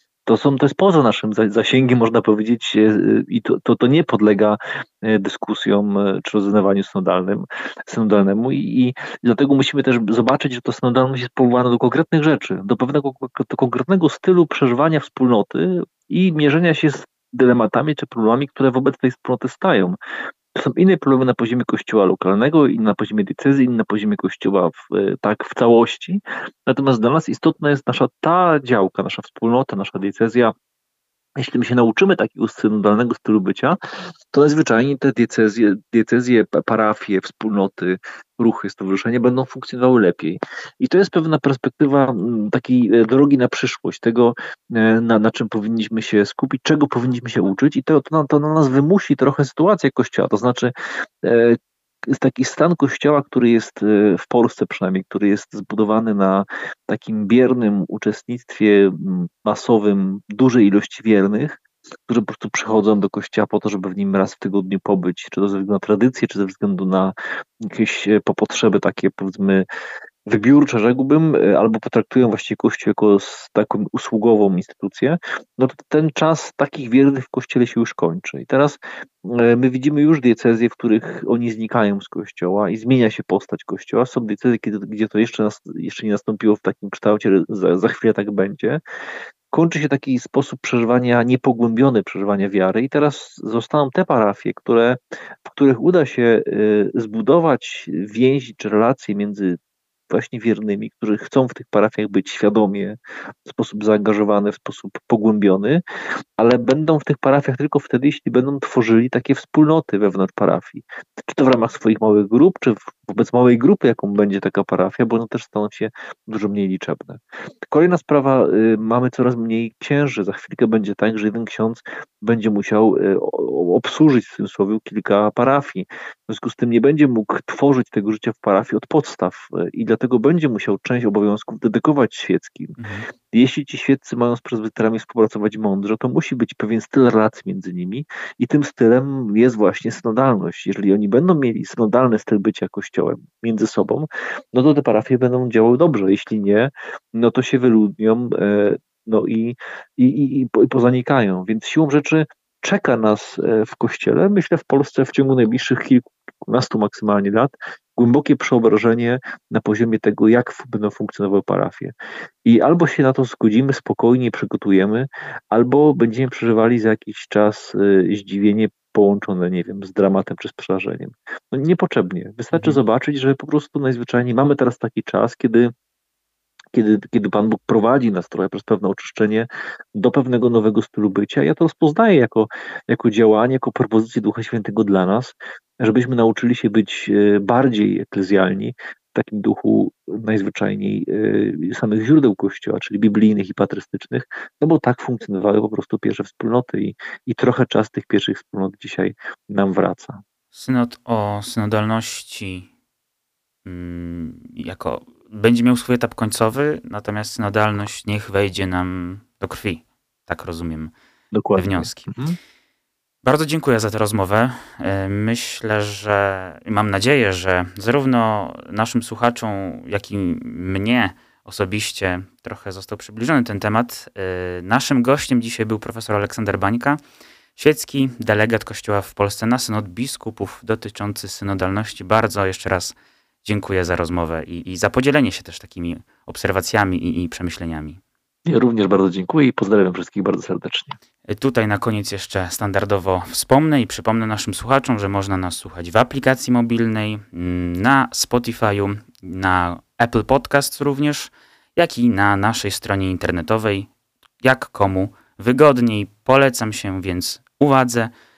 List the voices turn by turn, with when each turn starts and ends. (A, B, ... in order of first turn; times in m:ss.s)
0:00.2-0:20.0 A
0:20.5-0:30.5 A
0:31.4-0:33.8 A
0:34.3-1:09.6 A
1:10.2-1:28.8 A
1:29.5-1:39.6 A
1:40.1-1:45.8 A
1:46.4-2:41.9 A
2:12.8-2:13.0 B
2:42.4-2:55.7 A
2:52.5-2:52.8 B
2:56.7-3:20.2 A
3:20.5-3:22.7 B
3:23.6-3:30.9 B
3:31.3-3:32.4 A
3:31.5-3:32.1 B
3:33.2-3:47.0 B
3:47.6-3:58.0 B
3:58.4-4:01.0 A
4:01.3-4:13.9 B
4:14.4-4:18.1 B